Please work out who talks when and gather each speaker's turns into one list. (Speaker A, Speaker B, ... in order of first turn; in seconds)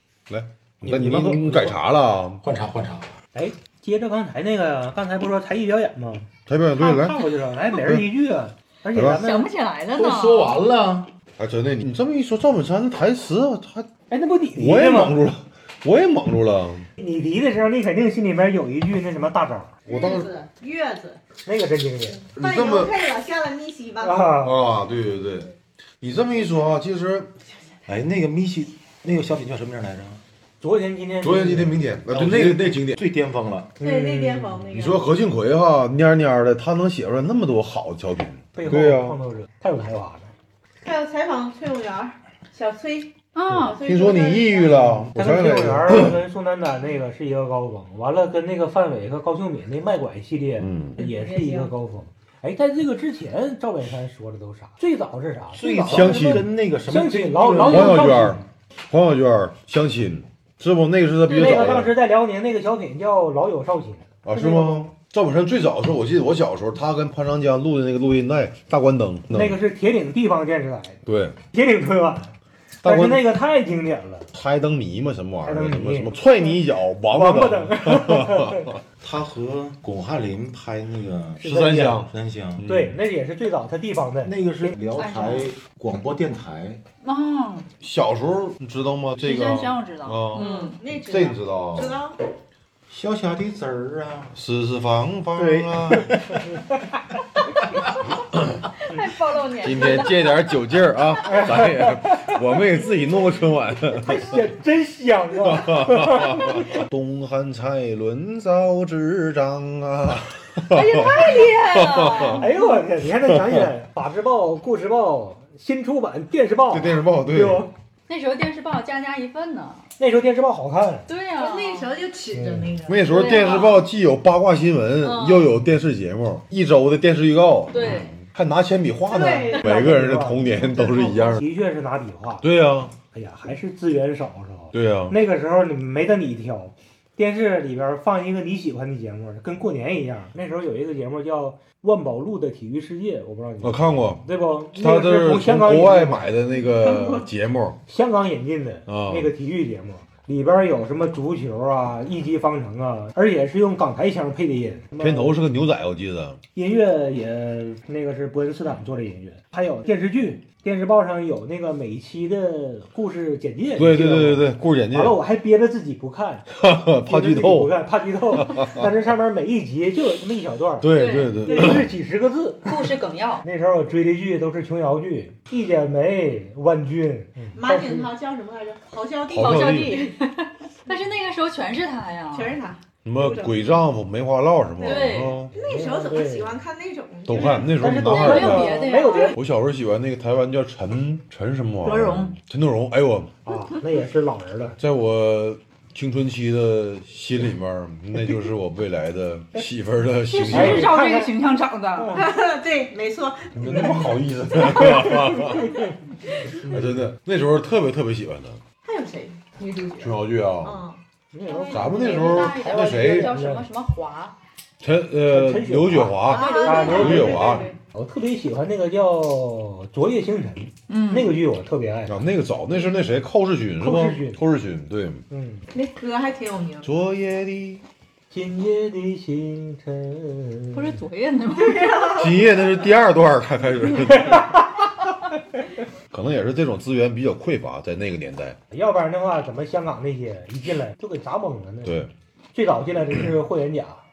Speaker A: 0.3-2.4, 6.5-8.1, 8.9-9.2, 11.4-13.9, 14.6-16.9, 19.9-20.3, 22.4-22.9, 24.4-27.3, 31.2-33.0, 34.7-39.2, 43.8-46.2, 50.6-51.0, 55.6-56.5, 57.6-62.0, 64.2-69.6, 71.0-71.4, 72.8-73.3, 74.3-78.8, 81.4-83.0, 87.8-92.0, 94.3-96.2, 99.6-104.4, 105.4-112.4, 116.7-117.7, 122.9-131.4, 132.4-132.9, 134.7-135.2, 143.6-144.2, 144.8-147.8, 148.9-149.3, 155.0-156.4, 163.8-165.2, 166.5-167.7, 168.4-168.9, 170.8-171.9, 179.3-180.0, 183.1-185.5, 187.3-188.8, 189.3-193.3, 194.8-201.0, 203.6-205.7, 206.6-208.6, 210.0-210.8, 211.7-213.3, 214.8-217.7, 222.1-225.2, 226.8-227.8, 232.1-234.6, 236.1-238.6, 241.8-242.1
Speaker B: 0.9-1.8, 2.4-3.1, 9.9-11.1, 27.9-30.2, 32.1-33.8, 55.5-58.3, 79.0-82.7, 84.2-86.8, 92.9-94.4, 95.4-96.4
Speaker C: 3.3-9.5, 14.1-15.2, 17.0-19.8, 21.4-22.2, 24.0-24.6, 30.6-31.8, 33.8-34.6, 38.6-40.3, 45.1-58.4, 61.3-64.9, 69.3-71.0, 71.5-74.3, 75.4-76.2, 77.1-78.7, 81.4-82.1, 82.6-84.8, 101.2-102.3, 104.0-106.8, 112.4-117.7, 120.0-121.1, 122.3-122.7, 129.6-132.5, 133.1-146.2, 147.9-155.4, 156.6-166.5, 167.0-170.9, 171.4-172.9, 173.4-178.1, 185.6-186.6, 187.8-189.4, 193.4-194.8, 200.5-201.3, 203.7-204.1, 204.7-205.9, 206.6-207.0, 211.3-213.7, 215.3-222.3, 223.8-224.4, 225.3-225.7, 228.3-231.0, 234.3-234.6, 238.7-242.0, 242.5-244.0
Speaker D: 9.0-10.6, 43.3-43.8, 61.4-61.7, 85.0-85.5, 87.0-87.7, 89.2-90.8, 98.8-100.6, 110.7-112.5, 118.1-119.9, 121.1-121.9, 123.1-123.9, 125.0-125.5, 127.7-128.2, 170.9-171.5, 172.7-173.4, 179.3-182.6, 184.8-185.4, 188.0-189.4, 191.8-192.3, 200.3-202.2, 211.5-214.3, 216.3-217.8, 220.9-221.4, 230.7-232.3
Speaker E: 19.9-21.2, 22.4-24.4, 33.8-35.0, 40.8-45.0, 51.0-51.7, 90.3-92.2, 121.4-123.5, 129.1-129.7, 177.5-180.1, 182.3-183.6, 184.8-187.7, 189.0-189.3, 202.1-205.6, 208.8-212.6, 216.3-217.7, 225.7-226.9, 231.6-232.3